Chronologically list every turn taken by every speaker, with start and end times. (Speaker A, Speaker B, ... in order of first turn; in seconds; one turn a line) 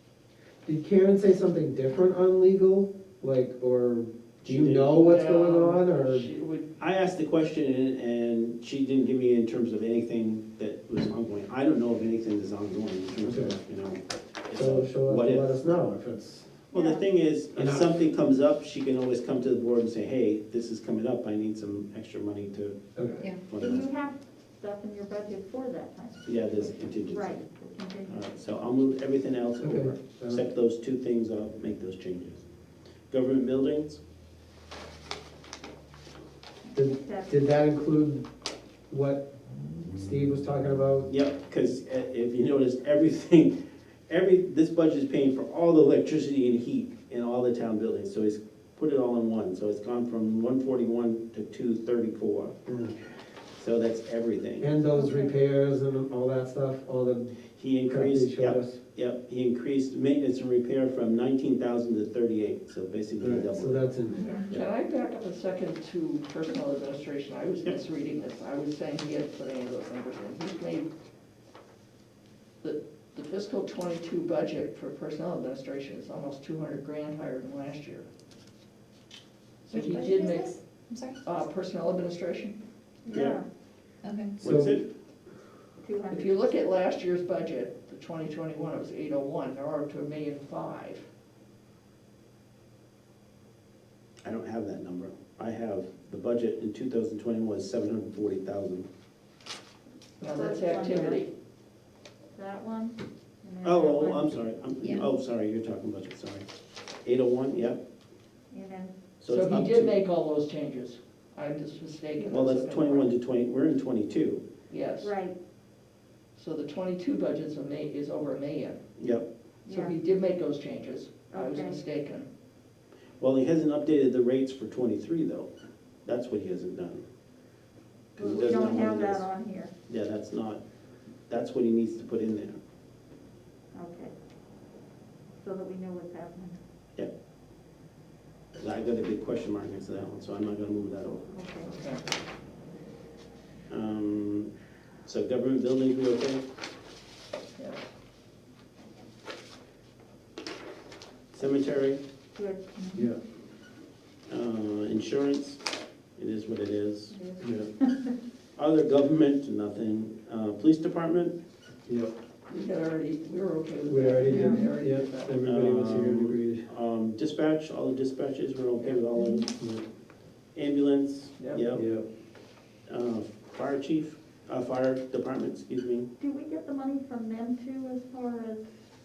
Speaker A: 0.6-6.3
Speaker B: 4.4-5.0
Speaker C: 4.9-6.7
Speaker B: 6.8-15.6
Speaker A: 13.2-13.6
Speaker A: 14.5-16.6
Speaker B: 16.7-22.8
Speaker D: 16.7-17.1
Speaker A: 17.6-17.9
Speaker A: 22.9-23.2
Speaker B: 23.5-23.9
Speaker D: 23.6-28.3
Speaker B: 26.2-27.4
Speaker B: 28.1-32.4
Speaker A: 29.6-30.4
Speaker B: 33.1-34.0
Speaker D: 36.6-37.4
Speaker A: 36.7-38.2
Speaker A: 38.9-39.2
Speaker A: 39.9-41.1
Speaker B: 41.1-43.5
Speaker B: 44.1-52.5
Speaker A: 52.6-53.0
Speaker B: 53.6-54.7
Speaker A: 54.6-58.8
Speaker D: 54.9-55.3
Speaker B: 57.5-63.9
Speaker A: 63.2-64.4
Speaker C: 64.2-70.9
Speaker C: 72.6-78.1
Speaker C: 79.6-80.5
Speaker E: 79.7-81.2
Speaker C: 81.2-82.5
Speaker D: 83.0-83.4
Speaker B: 83.1-83.4
Speaker E: 84.0-84.3
Speaker A: 84.4-84.8
Speaker B: 84.4-84.9
Speaker D: 85.8-86.4
Speaker C: 86.1-91.0
Speaker B: 94.2-98.9
Speaker D: 100.2-101.2
Speaker C: 100.2-101.3
Speaker D: 102.3-104.4
Speaker B: 103.6-106.5
Speaker B: 107.0-107.8
Speaker D: 108.5-108.9
Speaker B: 109.2-109.9
Speaker C: 109.3-113.1
Speaker B: 112.3-114.4
Speaker C: 114.7-115.1
Speaker D: 115.0-115.3
Speaker C: 116.3-118.8
Speaker B: 119.0-119.3
Speaker D: 119.7-119.9
Speaker C: 119.7-122.3
Speaker D: 121.3-121.8
Speaker B: 123.2-125.5
Speaker B: 126.0-127.0
Speaker B: 128.2-129.2
Speaker D: 128.2-129.7
Speaker B: 129.9-130.6
Speaker B: 131.3-132.6
Speaker D: 133.7-134.1
Speaker D: 135.4-136.6
Speaker B: 138.6-141.2
Speaker D: 141.3-141.7
Speaker C: 141.7-142.0
Speaker B: 143.7-144.5
Speaker B: 145.0-146.4
Speaker B: 151.3-152.0
Speaker D: 152.3-153.1
Speaker B: 154.3-155.6
Speaker B: 156.2-157.7
Speaker D: 157.1-158.1
Speaker B: 158.6-161.4
Speaker A: 161.8-162.1
Speaker C: 162.5-165.4
Speaker A: 163.8-166.7
Speaker E: 164.3-164.6
Speaker B: 165.4-169.5
Speaker A: 169.6-169.8
Speaker B: 170.5-171.8
Speaker C: 171.4-171.7
Speaker A: 171.7-172.1
Speaker B: 172.9-176.1
Speaker D: 176.2-178.6